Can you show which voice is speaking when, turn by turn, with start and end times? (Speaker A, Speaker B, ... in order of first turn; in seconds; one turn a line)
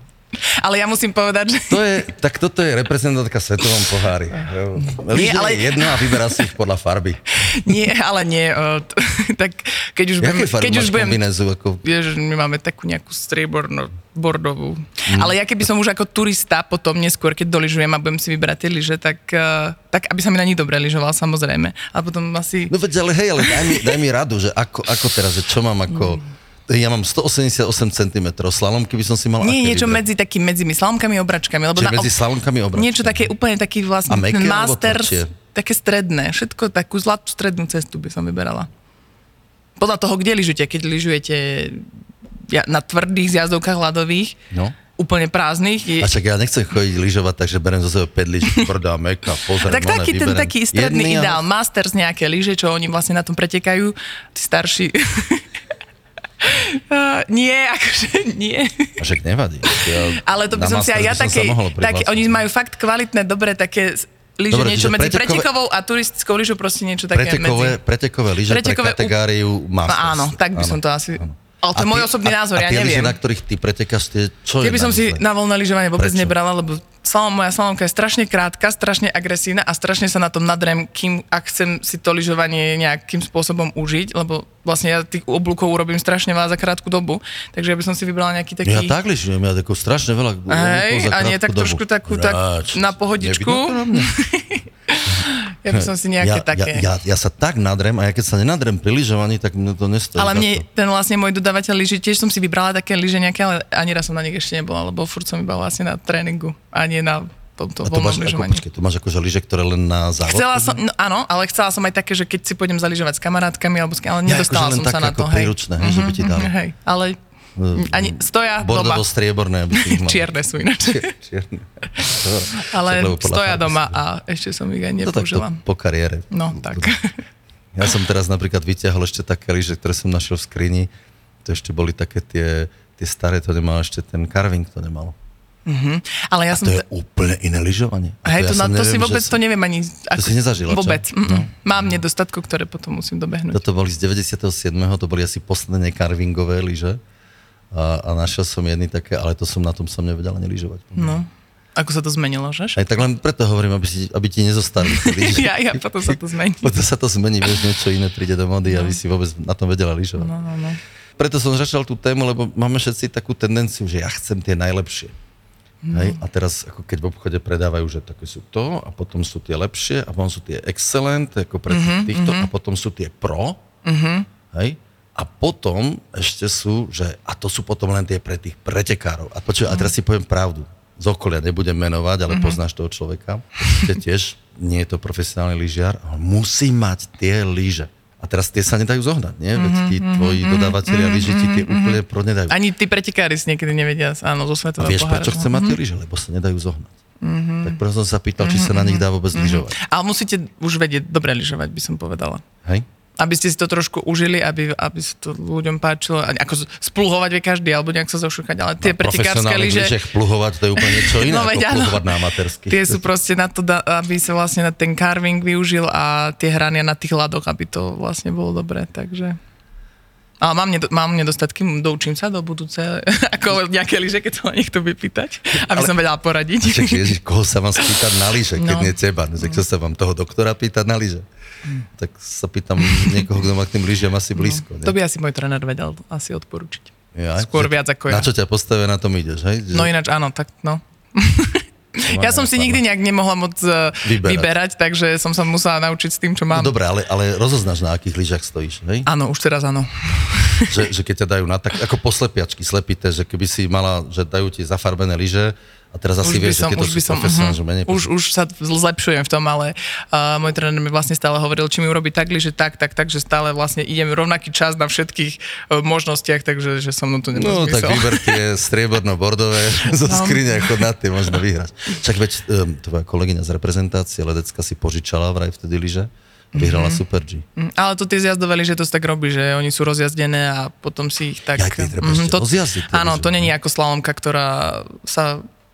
Speaker A: 0.4-1.9
Speaker B: 1.7-7.2
Speaker A: 5.0-6.5
Speaker A: 7.4-11.2
Speaker B: 10.2-11.8
Speaker A: 11.8-22.7
Speaker B: 15.1-15.3
Speaker B: 22.7-30.0
Speaker A: 23.4-23.8
Speaker A: 29.4-32.2
Speaker B: 31.7-33.3
Speaker A: 32.7-38.7
Speaker B: 34.1-35.3
Speaker A: 39.8-41.9
Speaker A: 42.5-44.4
Speaker B: 44.5-44.8
Speaker A: 44.9-46.1
Speaker B: 46.0-51.4
Speaker A: 48.4-48.7
Speaker A: 49.5-55.5
Speaker A: 56.4-59.0
Speaker B: 59.0-62.4
Speaker A: 59.7-67.8
Speaker B: 64.5-65.5
Speaker B: 67.1-75.2
Speaker A: 68.4-69.2
Speaker A: 69.8-73.2
Speaker A: 74.6-88.9
Speaker B: 76.0-76.3
Speaker B: 88.6-94.1
Speaker A: 90.5-96.9
Speaker B: 95.1-100.6
Speaker A: 100.1-108.6
Speaker B: 107.8-110.8
Speaker A: 110.2-117.2
Speaker B: 114.2-116.5
Speaker B: 117.5-124.0
Speaker A: 117.7-119.0
Speaker A: 119.7-121.1
Speaker A: 122.5-125.6
Speaker B: 125.0-126.9
Speaker A: 126.3-127.2
Speaker B: 127.7-130.9
Speaker B: 131.4-135.1
Speaker A: 135.7-136.8
Speaker B: 136.5-139.4
Speaker A: 138.2-143.6
Speaker B: 140.1-141.5
Speaker B: 143.5-147.0
Speaker B: 147.7-151.2
Speaker A: 150.9-152.8
Speaker B: 152.8-160.3
Speaker A: 154.8-156.7
Speaker A: 158.7-159.0
Speaker A: 160.2-160.8
Speaker B: 161.2-165.1
Speaker A: 165.8-166.2
Speaker B: 165.9-173.6
Speaker A: 171.7-172.5
Speaker A: 173.8-174.3
Speaker B: 174.5-192.6
Speaker A: 182.3-182.6
Speaker A: 189.6-195.8
Speaker B: 194.8-196.9
Speaker A: 197.2-197.8
Speaker B: 197.6-199.8
Speaker A: 198.4-202.4
Speaker A: 203.2-210.0
Speaker B: 208.8-213.0
Speaker A: 210.7-219.4
Speaker A: 220.4-227.2
Speaker B: 226.6-231.2
Speaker A: 228.5-229.5
Speaker B: 231.9-234.9
Speaker A: 232.8-233.1
Speaker A: 234.3-238.3
Speaker B: 237.1-239.9
Speaker A: 239.7-246.8
Speaker B: 242.0-242.8
Speaker B: 244.0-244.5
Speaker B: 246.5-249.1
Speaker A: 249.1-250.9
Speaker B: 250.6-258.1
Speaker A: 256.2-268.4
Speaker B: 267.3-277.4
Speaker A: 270.0-270.8
Speaker A: 276.5-277.0
Speaker A: 277.6-285.4
Speaker B: 281.5-283.5